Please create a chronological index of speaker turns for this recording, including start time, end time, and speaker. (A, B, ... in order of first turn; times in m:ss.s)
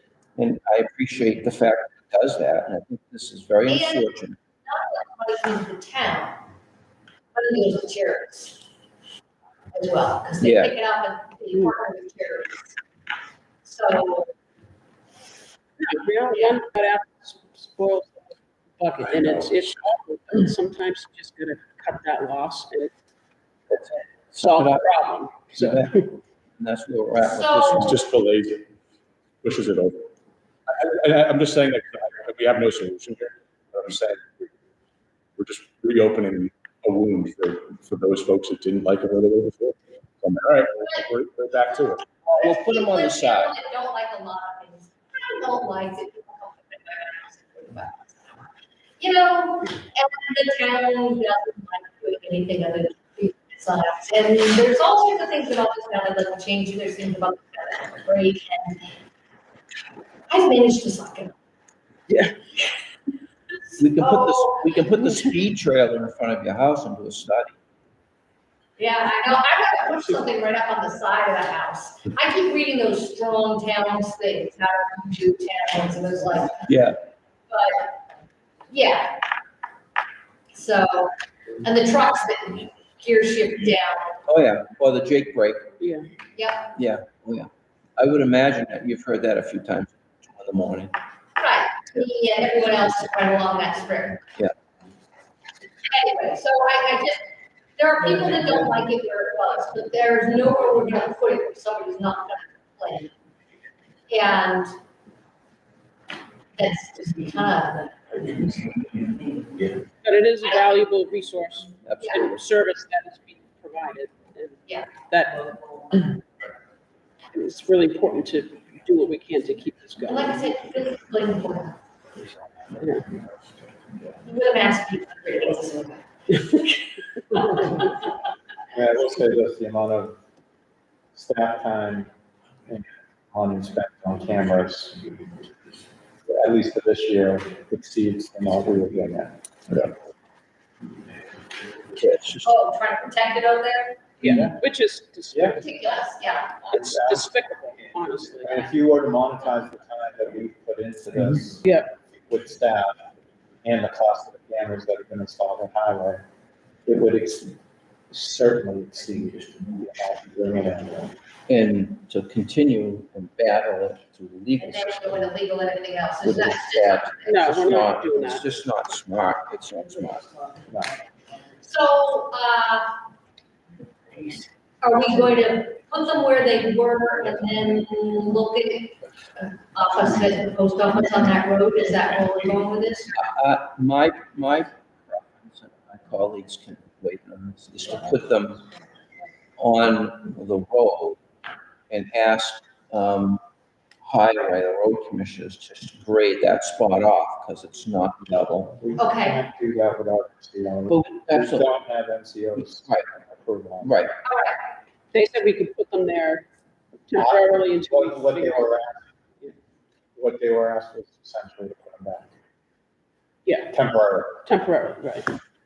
0:00.4-0:04.4 A
0:03.7-0:04.1 B
0:04.7-0:06.4 B
0:07.4-0:08.6 B
0:09.7-0:12.8 B
0:10.4-0:10.8 A
0:13.6-0:14.3 B
0:15.8-0:18.2 C
0:16.3-0:16.6 B
0:18.8-0:22.9 C
0:23.7-0:24.9 A
0:24.4-0:26.1 C
0:25.6-0:28.0 A
0:27.2-0:28.0 B
0:27.8-0:28.6 D
0:29.4-0:30.1 D
0:30.7-0:34.3 D
0:35.4-0:42.1 D
0:42.3-0:43.6 A
0:42.4-0:48.4 B
0:49.0-0:58.8 B
1:00.3-1:01.3 B
1:03.8-1:07.6 A
1:04.0-1:05.0 B
1:08.8-1:16.7 B
1:16.7-1:17.0 A
1:17.5-1:18.0 B
1:18.7-1:19.2 B
1:20.5-1:24.2 B
1:24.3-1:25.7 A
1:25.8-1:26.1 C
1:26.4-1:26.7 B
1:26.8-1:31.0 A
1:31.4-1:34.2 B
1:35.8-1:37.3 B
1:37.8-1:43.1 B
1:44.1-1:44.7 B
1:46.6-1:48.6 B
1:50.0-1:56.2 C
1:51.8-1:52.3 A
1:57.3-2:00.5 C
2:00.1-2:01.8 B
2:02.8-2:03.1 C
2:04.1-2:06.0 B
2:06.3-2:07.9 C
2:08.7-2:10.2 E
2:11.1-2:12.1 E
2:12.7-2:15.0 E
2:16.3-2:19.4 E
2:22.0-2:22.5 A
2:22.4-2:24.1 B
2:24.2-2:25.8 C
2:24.2-2:24.6 E
2:25.3-2:25.6 E
2:25.6-2:26.6 B
2:26.6-2:28.7 C
2:26.7-2:31.6 E
2:31.6-2:31.9 C
2:32.3-2:33.0 E
2:33.6-2:36.3 E
2:36.9-2:37.6 E
2:38.1-2:41.2 E
2:41.5-2:45.3 A
2:44.6-2:47.5 B
2:46.2-2:50.3 A
2:47.3-2:48.6 C
2:51.6-2:52.9 B
2:54.8-3:03.2 B
3:03.2-3:08.6 A
3:09.6-3:11.2 A
3:11.9-3:13.4 A
3:14.0-3:18.8 A
3:18.6-3:24.0 E
3:19.0-3:19.4 B
3:20.9-3:21.7 A
3:22.6-3:23.1 A
3:23.8-3:24.2 A
3:24.2-3:24.6 B
3:25.1-3:26.5 C
3:27.1-3:28.8 C
3:27.2-3:29.0 E
3:30.2-3:32.3 E
3:33.5-3:33.7 C
3:33.7-3:34.4 E
3:34.4-3:35.3 C